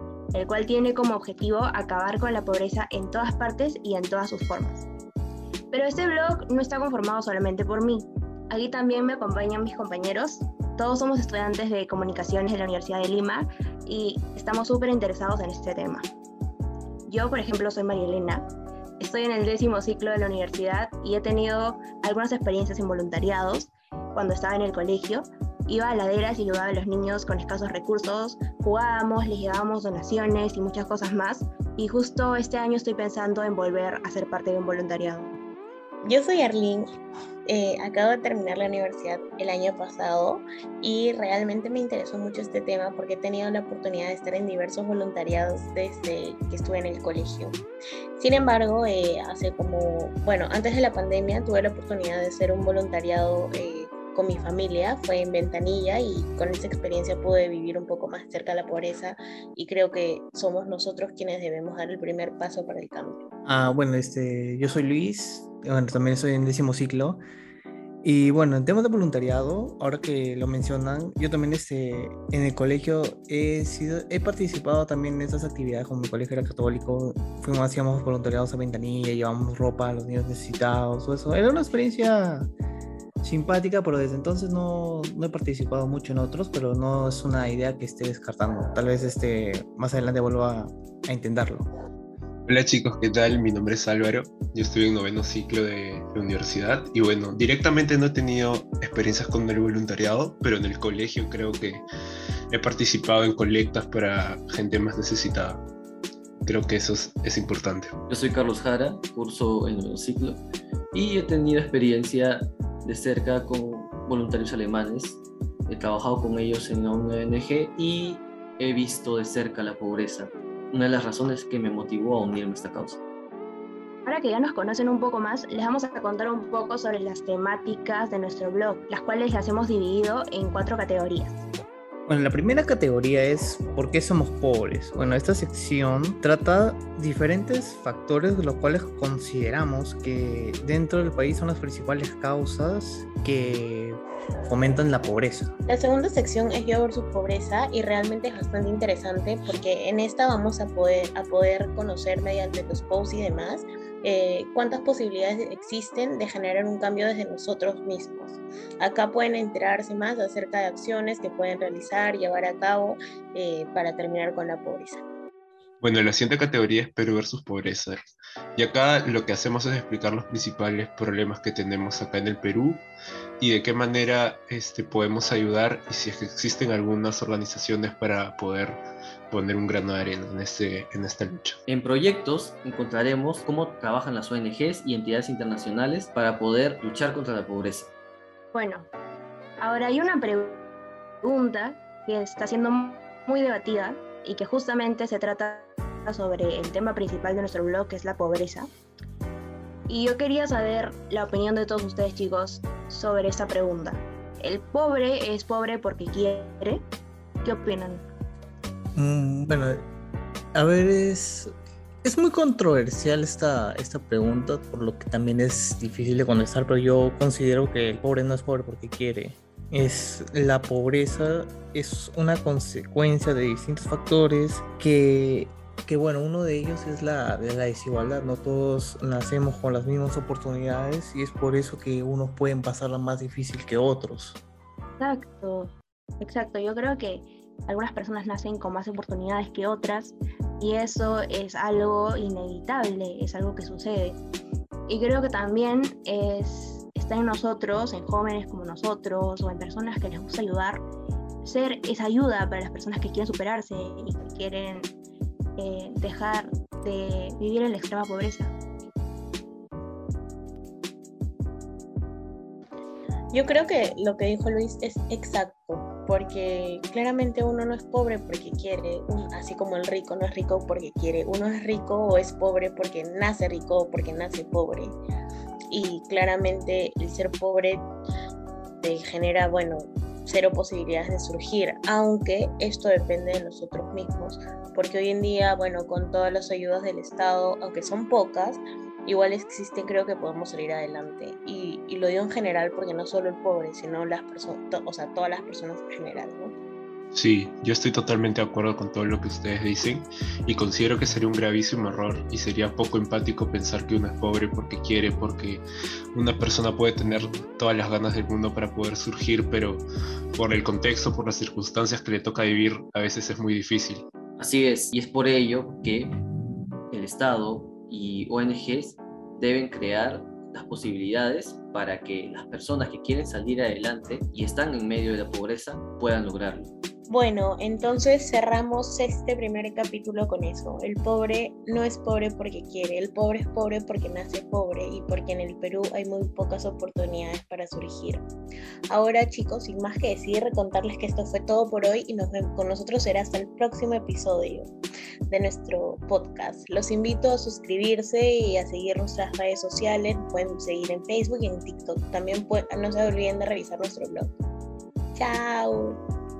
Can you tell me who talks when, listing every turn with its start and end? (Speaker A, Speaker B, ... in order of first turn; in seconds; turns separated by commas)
Speaker A: 0.3-4.9, Speaker A: 5.7-16.1, Speaker A: 17.1-18.5, Speaker A: 19.0-35.4, Speaker B: 36.0-36.9, Speaker B: 37.5-47.6, Speaker B: 48.2-63.2, Speaker C: 63.5-67.2, Speaker C: 68.0-82.5, Speaker C: 83.2-91.7, Speaker D: 92.5-101.8, Speaker D: 102.5-105.6, Speaker D: 106.4-107.9, Speaker E: 108.1-110.4, Speaker E: 110.9-123.0, Speaker A: 124.0-131.4, Speaker C: 132.1-145.5, Speaker B: 145.7-165.0, Speaker D: 165.8-168.0, Speaker D: 168.6-172.8, Speaker D: 173.4-181.6, Speaker E: 181.7-187.9, Speaker A: 188.5-188.9, Speaker A: 189.6-190.7, Speaker A: 191.2-198.7, Speaker A: 199.9-206.8, Speaker A: 207.4-208.0, Speaker C: 208.9-209.8, Speaker C: 210.5-211.5, Speaker C: 212.0-234.4, Speaker A: 235.0-244.2, Speaker A: 244.9-250.8, Speaker A: 251.4-254.9, Speaker A: 255.6-258.5, Speaker B: 263.3-275.0, Speaker B: 275.7-277.9, Speaker B: 278.8-296.6, Speaker D: 297.1-305.6, Speaker D: 306.1-314.1, Speaker E: 314.4-316.2, Speaker E: 316.9-326.7, Speaker B: 327.1-338.2, Speaker B: 338.9-344.7, Speaker B: 345.3-354.3, Speaker B: 355.1-356.0